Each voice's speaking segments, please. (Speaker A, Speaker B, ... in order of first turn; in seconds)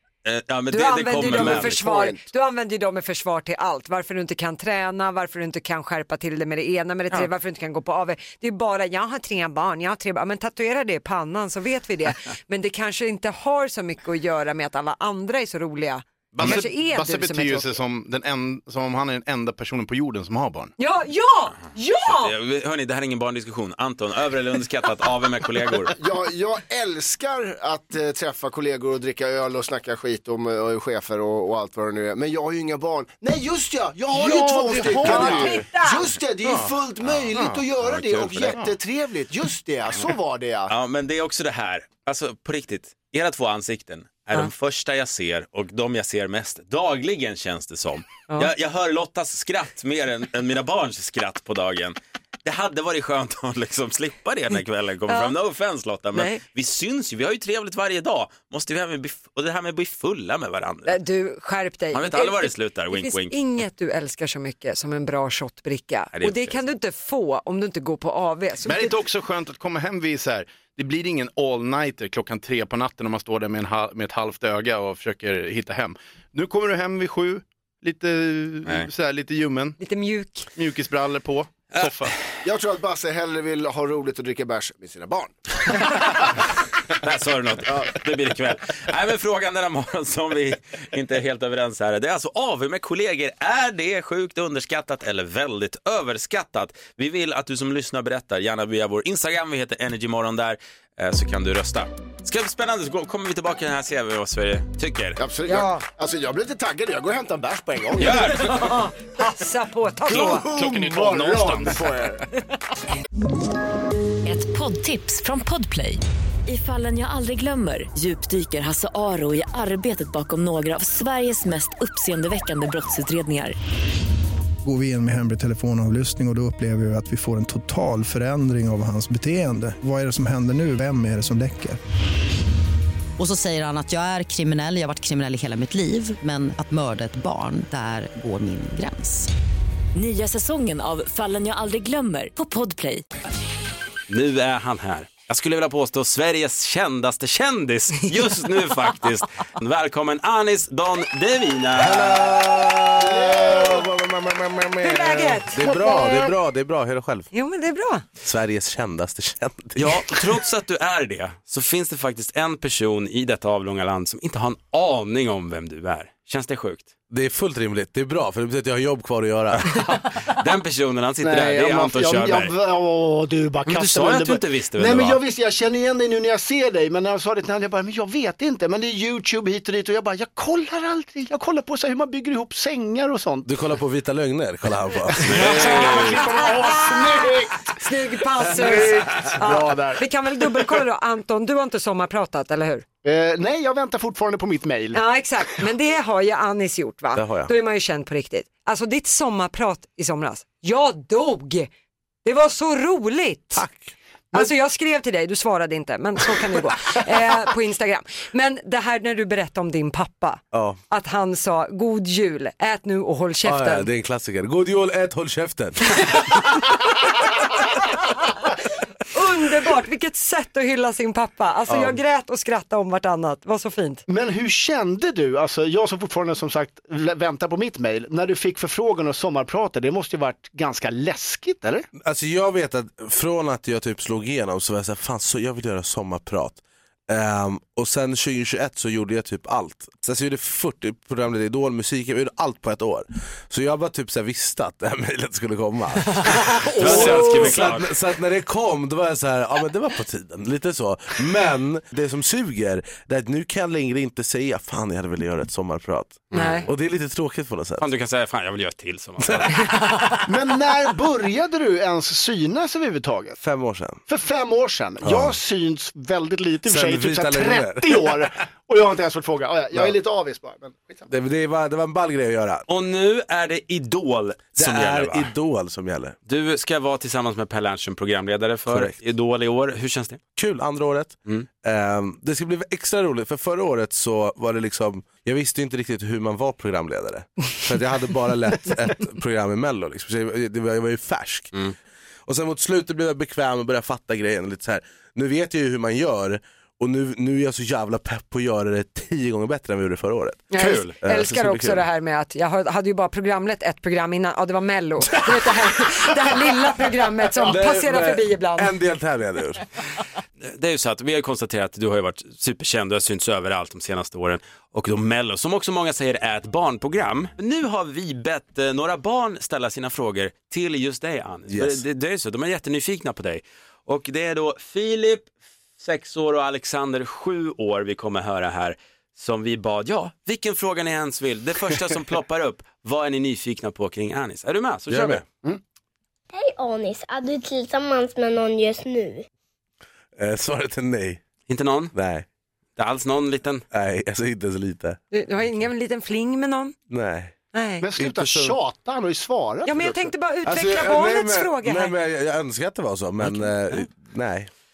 Speaker A: 0.2-1.8, 22.1-25.9, 37.0-38.6, 40.7-61.0, 61.9-63.4, 66.1-66.6, 81.7-82.1, 87.0-105.2, 108.0-108.6, 144.1-152.2, 159.8-166.9, 169.6-172.5, 173.7-175.2, 185.2-186.3, 246.7-247.9, 256.3-256.7, 257.8-259.6, 272.7-275.3, 276.3-280.2, 310.4-335.2, 341.5-341.9, 342.8-343.6
Speaker B: 0.7-17.8, 20.8-22.3, 34.4-36.0, 55.1-55.3, 56.1-56.4, 60.8-69.0, 79.8-80.5, 108.3-110.5, 154.8-156.3, 157.3-158.0, 185.5-192.8, 194.9-201.7, 202.2-203.6, 204.3-213.9, 219.1-224.0, 246.7-247.1, 256.3-256.7, 300.5-308.7, 345.1-346.7, 347.5-347.8, 349.6-351.9
Speaker C: 1.2-2.2, 25.9-40.7, 82.4-86.1, 105.2-108.4, 110.1-112.2, 153.0-153.8, 171.2-183.5, 185.2-187.8, 188.4-190.1, 193.0-195.0, 224.1-231.9, 260.2-263.4, 264.1-271.1, 347.8-350.1
Speaker D: 16.3-20.7, 68.6-79.8, 80.5-82.1, 110.1-111.8
Speaker E: 114.2-123.5, 139.9-143.0
Speaker F: 124.6-131.8
Speaker G: 133.2-139.3
Speaker H: 151.7-157.3, 158.2-160.3, 167.1-169.8, 183.4-185.7, 188.4-189.4, 197.1-197.5, 203.5-203.9, 210.5-210.8, 213.4-216.2, 221.7-221.9, 232.0-257.9, 259.2-259.6, 263.4-264.0, 265.0-265.4, 266.6-268.2, 271.1-272.6, 274.6-276.1, 278.7-278.9, 280.4-291.5, 292.2-301.9, 307.4-309.6, 321.5-321.8, 334.9-335.2, 340.1-341.2, 341.9-342.2, 343.7-345.0, 346.9-347.3, 347.9-348.6, 350.4-354.5
Speaker I: 336.3-339.2